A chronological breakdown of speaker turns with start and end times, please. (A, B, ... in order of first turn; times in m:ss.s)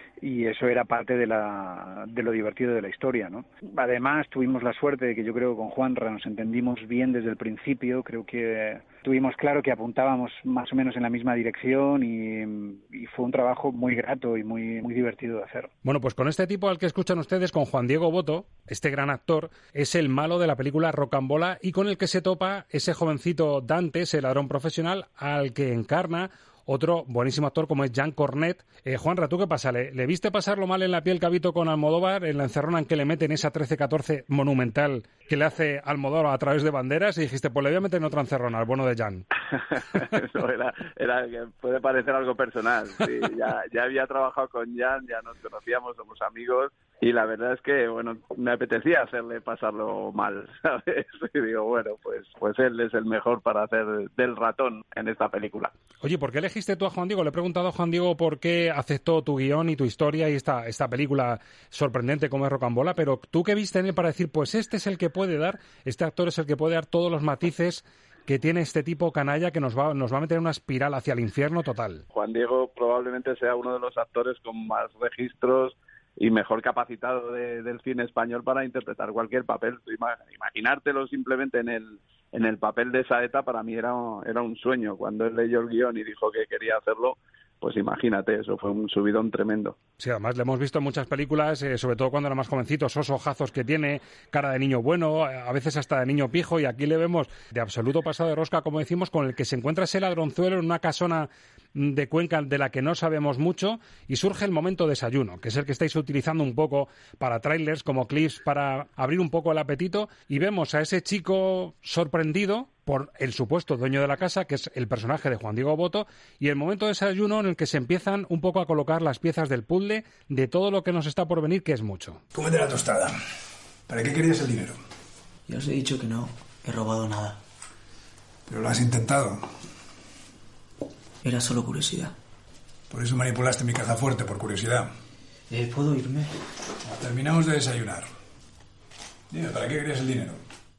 0:00.2-0:15.7 A
0:15.8-0:39.3 B
0:39.5-0:55.7 C
0:56.0-1:12.0 B
1:12.1-1:29.8 C
1:30.0-2:02.2 B
2:02.3-2:03.2 D
2:03.9-2:04.8 D
2:05.5-2:07.4 E
2:08.5-2:09.4 D
2:11.2-2:12.2 E
2:12.9-2:14.9 D
2:15.5-2:16.3 E
2:16.8-2:18.1 D
2:19.3-2:20.4 D